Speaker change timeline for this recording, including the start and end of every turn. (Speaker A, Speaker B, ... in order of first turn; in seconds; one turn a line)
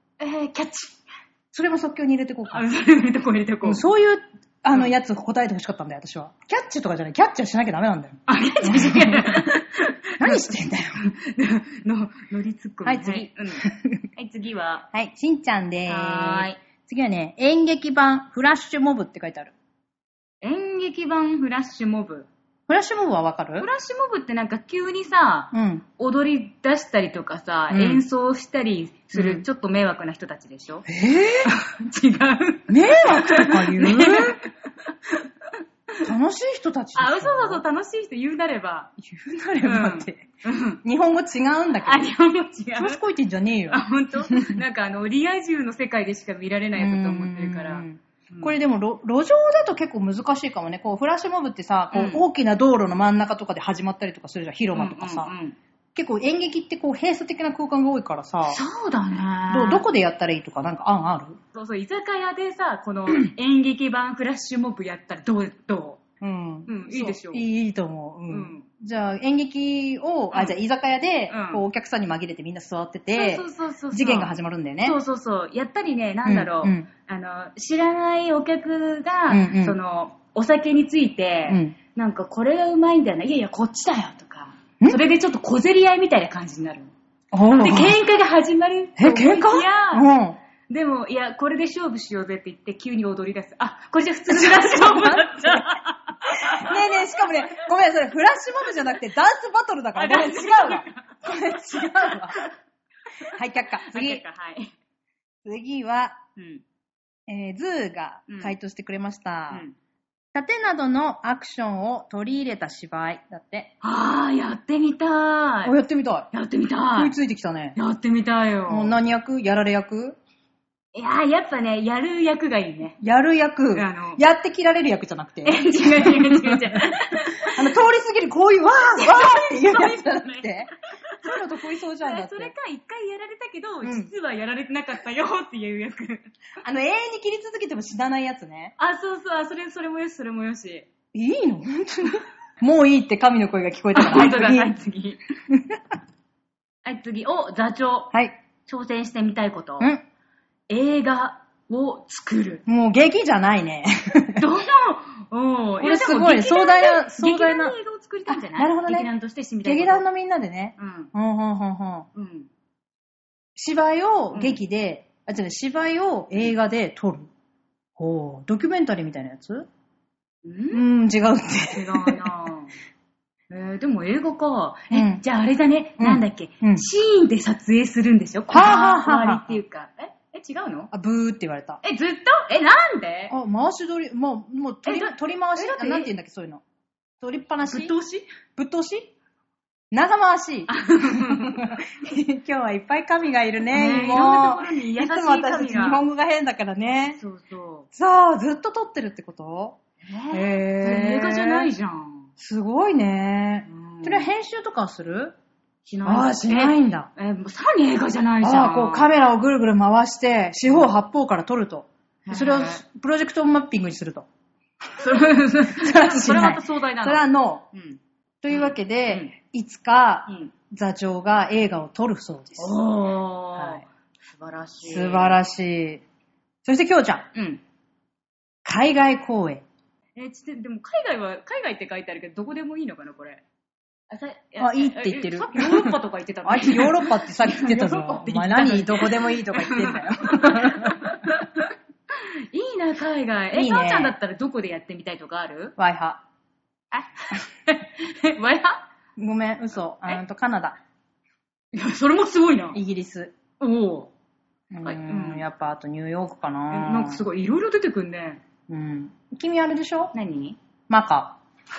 Speaker A: 0.2-1.0
Speaker B: 1.5-2.7
Speaker A: 2.5-3.8
Speaker B: 3.6-9.4
Speaker A: 8.3-14.9
Speaker B: 10.2-11.1
Speaker B: 12.8-14.0
Speaker B: 14.9-19.5
Speaker A: 15.9-16.6
Speaker A: 20.4-22.3
Speaker B: 22.7-23.7
Speaker A: 23.6-30.9
Speaker B: 25.5-25.8
Speaker B: 27.7-28.0
Speaker B: 29.1-29.4
Speaker B: 30.9-31.5
Speaker A: 31.4-34.5
Speaker B: 32.7-34.4
Speaker B: 36.0-37.6
Speaker A: 36.9-38.9
Speaker B: 39.0-40.2
Speaker A: 39.6-40.8
Speaker B: 40.8-42.1
Speaker A: 41.8-43.0
Speaker B: 42.7-44.6
Speaker A: 43.7-48.5
Speaker B: 46.8-55.3
Speaker A: 51.9-52.2
Speaker A: 54.7-55.5
Speaker B: 55.9-58.6
Speaker A: 58.5-59.8
Speaker B: 59.5-61.4
Speaker A: 61.5-66.0
Speaker B: 66.2-75.0
Speaker A: 66.7-67.5
Speaker A: 68.3-68.7
Speaker A: 71.3-71.6
Speaker A: 73.1-86.9
Speaker B: 76.2-76.9
Speaker B: 79.3-79.8
Speaker B: 81.5-81.8
Speaker B: 87.3-88.0
Speaker A: 87.5-90.1
Speaker B: 89.0-90.4
Speaker A: 90.7-97.0
Speaker B: 94.3-95.8
Speaker B: 96.3-102.4
Speaker A: 99.9-101.2
Speaker A: 101.8-102.5
Speaker A: 103.2-104.7
Speaker B: 103.3-104.2
Speaker B: 105.4-106.2
Speaker A: 106.3-106.6
Speaker B: 107.3-109.6
Speaker A: 108.3-108.5
Speaker A: 109.5-109.7
Speaker B: 110.3-113.7
Speaker A: 113.8-115.7
Speaker B: 115.6-116.3
Speaker A: 116.3-117.1
Speaker B: 116.9-117.8
Speaker A: 117.8-118.9
Speaker B: 118.7-120.2
Speaker A: 120.9-123.0
Speaker B: 123.0-126.9
Speaker A: 123.7-124.2
Speaker A: 125.4-127.6
Speaker B: 127.4-130.7
Speaker A: 128.9-131.4
Speaker B: 131.2-132.5
Speaker A: 131.9-136.3
Speaker B: 133.8-134.1
Speaker B: 136.6-138.7
Speaker A: 138.8-140.9
Speaker B: 141.1-144.7
Speaker A: 143.9-145.2
Speaker B: 145.5-145.8
Speaker A: 146.8-148.1
Speaker A: 148.7-149.9
Speaker A: 150.7-152.6
Speaker B: 152.7-154.4
Speaker A: 154.3-160.0
Speaker B: 155.8-157.7
Speaker B: 158.3-159.1
Speaker B: 159.6-162.1
Speaker A: 160.8-161.1
Speaker A: 162.1-162.5
Speaker B: 163.6-167.3
Speaker B: 168.0-169.7
Speaker A: 170.4-170.8
Speaker B: 170.7-172.2
Speaker A: 171.7-172.7
Speaker A: 173.5-180.9
Speaker B: 174.9-175.2
Speaker B: 176.0-176.8
Speaker B: 178.5-179.6
Speaker B: 180.9-181.8
Speaker A: 181.8-183.3
Speaker B: 183.3-186.6
Speaker A: 184.8-186.1
Speaker B: 187.2-187.9
Speaker A: 187.6-188.3
Speaker B: 188.5-189.1
Speaker B: 189.9-197.2
Speaker A: 190.7-191.7
Speaker A: 193.7-196.0
Speaker A: 197.2-197.9
Speaker B: 197.9-199.8
Speaker A: 200.0-202.3
Speaker B: 200.3-201.7
Speaker B: 202.4-205.3
Speaker A: 203.7-204.3
Speaker A: 205.8-209.1
Speaker B: 206.0-207.1
Speaker B: 208.4-214.2
Speaker A: 212.2-212.8
Speaker A: 215.0-219.3
Speaker B: 215.8-217.7
Speaker B: 218.4-222.7
Speaker A: 222.6-225.4
Speaker B: 223.6-223.8
Speaker B: 224.8-226.0
Speaker B: 226.6-227.3
Speaker A: 227.3-227.6
Speaker B: 228.6-229.6
Speaker A: 230.2-233.4
Speaker A: 234.1-245.7
Speaker B: 234.6-241.1
Speaker B: 243.5-244.1
Speaker B: 245.8-246.2
Speaker A: 246.9-248.8
Speaker B: 249.2-250.8
Speaker A: 251.7-252.8
Speaker B: 252.7-253.3
Speaker A: 253.6-254.1
Speaker B: 254.7-257.2
Speaker A: 254.8-255.4
Speaker A: 256.7-258.4
Speaker B: 258.7-260.1
Speaker A: 260.1-260.6
Speaker B: 260.9-261.4